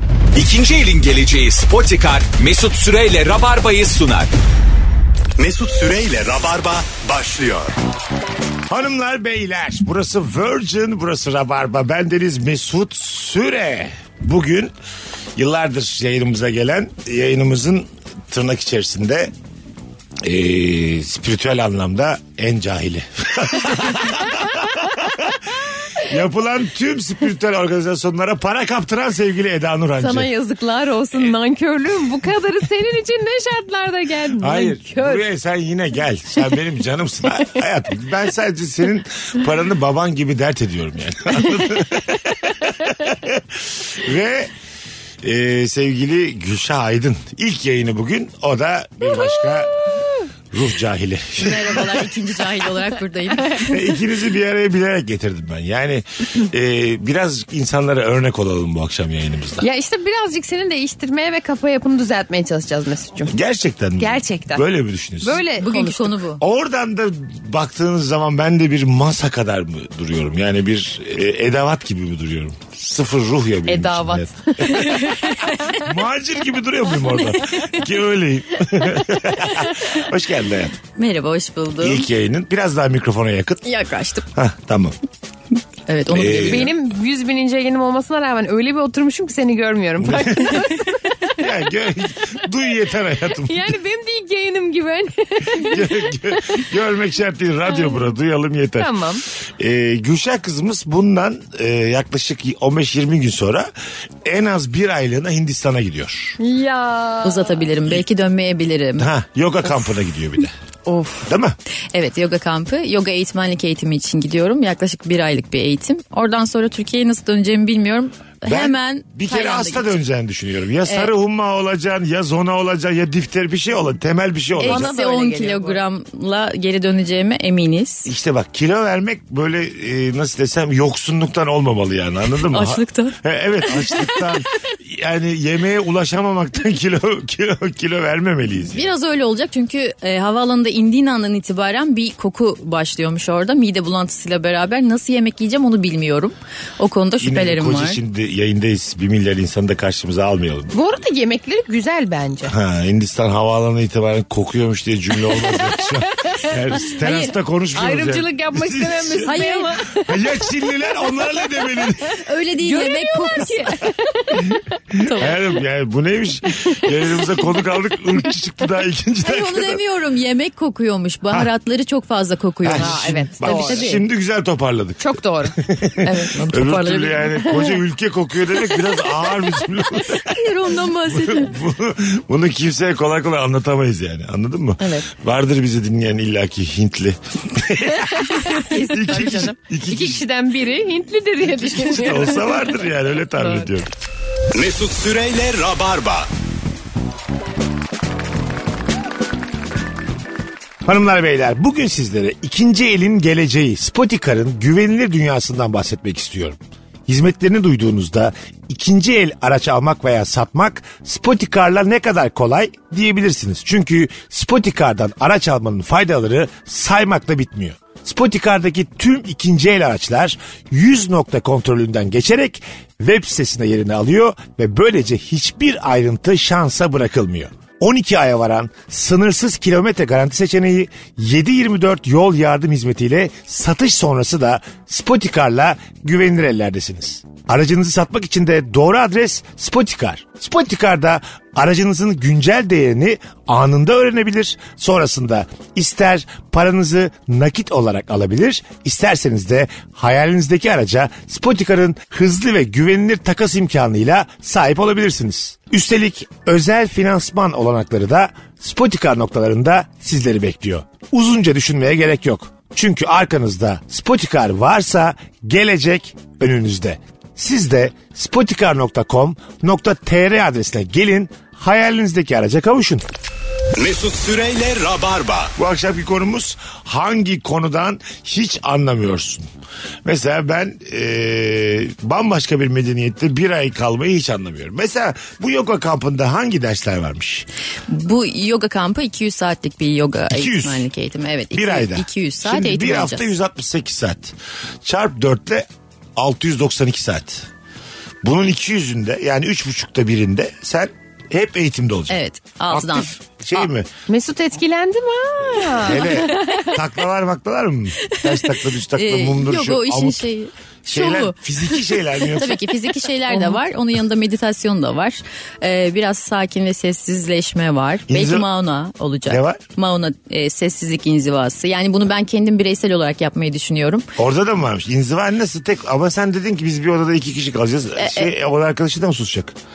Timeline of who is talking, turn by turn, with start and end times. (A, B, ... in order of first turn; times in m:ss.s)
0:00.3-0:04.3 A
0:05.4-0:07.7 B
0:08.7-0:14.7 C
0:15.4-0:19.3 C
0:20.2-0:30.3 C
0:30.0-0:35.2 D
0:34.4-0:44.5 C
0:45.2-0:49.7 C
0:49.2-0:50.2 D
0:50.5-0:52.1 C
0:51.4-0:53.8 E
0:53.5-0:59.6 C
0:59.6-1:03.3 D
1:03.3-1:05.4 C
1:04.0-1:04.6 D
1:05.2-1:06.1 D
1:05.6-1:06.4 E
1:06.4-1:20.8 C
1:13.7-1:15.8 D
1:14.9-1:15.3 E
1:21.0-1:22.1 E
1:21.8-1:23.7 C
1:23.6-1:24.3 E
1:24.3-1:24.9 C
1:25.9-1:26.7 E
1:26.1-1:26.7 C
1:26.4-1:31.3 D
1:30.0-1:30.7 C
1:31.4-1:33.7 C
1:33.4-1:36.6 D
1:35.5-1:38.9 C
1:37.7-1:38.1 D
1:38.8-1:39.2 D
1:39.6-1:43.7 C
1:44.2-1:46.4 C
1:46.4-1:47.7 D
1:47.2-1:49.1 E
1:49.0-1:50.5 C
1:50.9-1:51.2 D
1:51.3-1:51.6 C
1:51.9-1:59.9 E
1:58.4-2:04.9 C
2:04.6-2:05.8 D
2:04.6-2:08.1 E
2:08.0-2:18.9 C
2:12.5-2:14.1 E
2:18.6-2:28.0 E
2:27.2-2:30.8 C
2:30.7-2:32.5 D
2:32.5-2:42.2 C
2:35.3-2:41.1 D
2:39.2-2:39.7 E
2:41.7-2:41.9 D
2:42.2-2:44.1 E
2:42.6-2:44.6 D
2:44.9-2:49.8 C
2:45.0-2:45.3 E
2:49.2-2:54.0 E
2:52.6-3:10.2 C
2:52.8-2:54.0 D
2:55.0-2:56.7 D
2:56.3-2:57.3 E
2:57.4-2:57.8 D
3:00.2-3:01.5 E
3:04.8-3:05.0 D
3:08.1-3:12.7 D
3:11.6-3:13.9 C
3:13.3-3:13.8 D
3:14.5-3:16.3 B
3:20.8-4:33.0 C
4:33.8-4:35.5 B
4:35.6-4:39.5 C
4:40.0-4:47.5 C
4:47.9-4:53.3 E
4:50.3-4:50.9 C
4:51.5-4:57.5 C
4:58.2-5:02.2 C
5:02.1-5:03.1 E
5:02.7-5:03.9 C
5:04.1-5:06.8 D
5:05.6-5:10.3 C
5:08.0-5:24.1 E
5:10.9-5:12.8 C
5:13.3-5:13.6 D
5:18.1-5:18.5 C
5:19.3-5:19.6 C
5:24.2-5:29.5 C
5:28.0-5:28.3 E